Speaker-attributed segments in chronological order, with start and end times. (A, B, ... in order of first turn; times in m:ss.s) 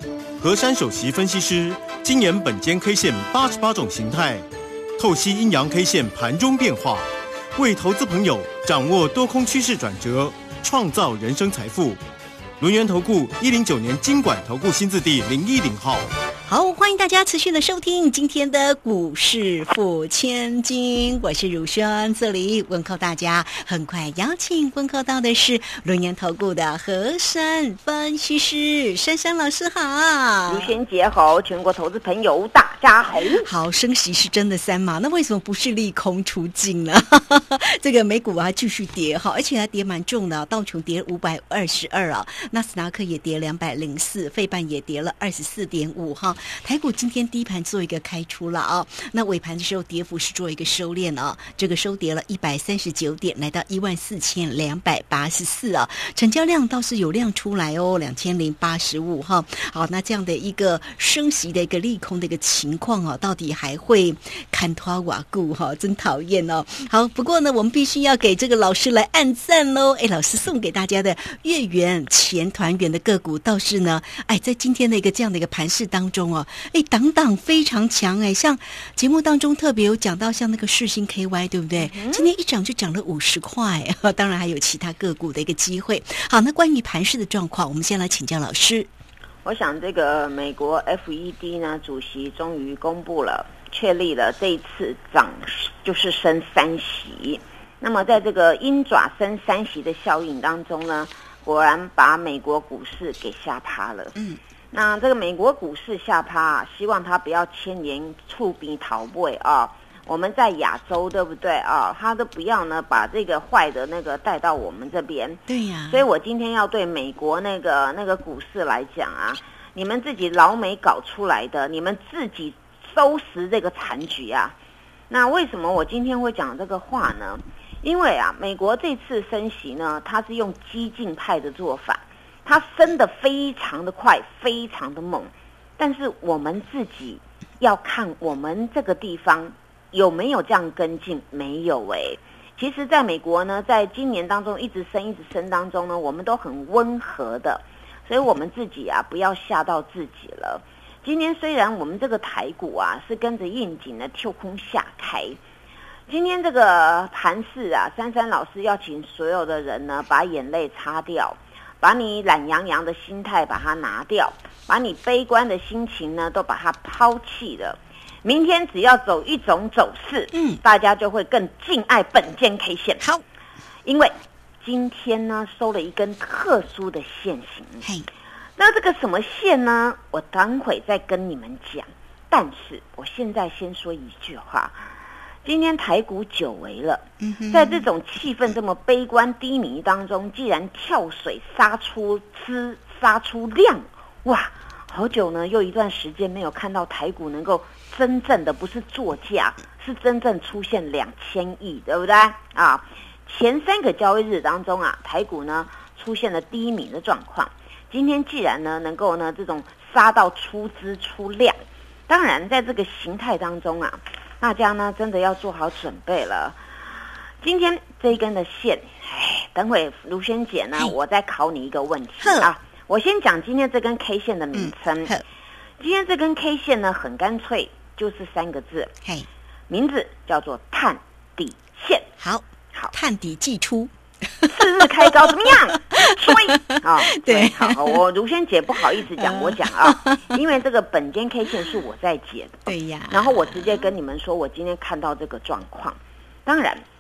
0:00.4-0:04.4 A
0:05.0-0:12.0 A
0:12.6-0:16.1 A
0:16.5-0:30.8 B
0:30.5-0:33.5 C
0:33.4-1:28.9 B
1:21.8-1:22.3 C
1:29.4-1:44.2 C
1:44.7-2:04.6 C
1:55.5-1:56.0 B
2:05.1-2:35.4 C
2:36.1-2:53.0 C
2:50.3-2:50.6 B
2:53.8-2:57.9 C
2:58.6-3:04.8 C
3:05.4-3:31.6 C
3:07.2-3:07.8 B
3:32.1-3:36.6 C
3:37.4-3:45.1 C
3:42.2-3:42.5 B
3:44.5-3:45.2 B
3:45.8-3:48.9 C
3:49.7-3:52.1 C
3:52.2-3:58.0 B
3:54.5-4:06.8 C
3:59.2-4:00.3 B
4:02.7-4:03.8 B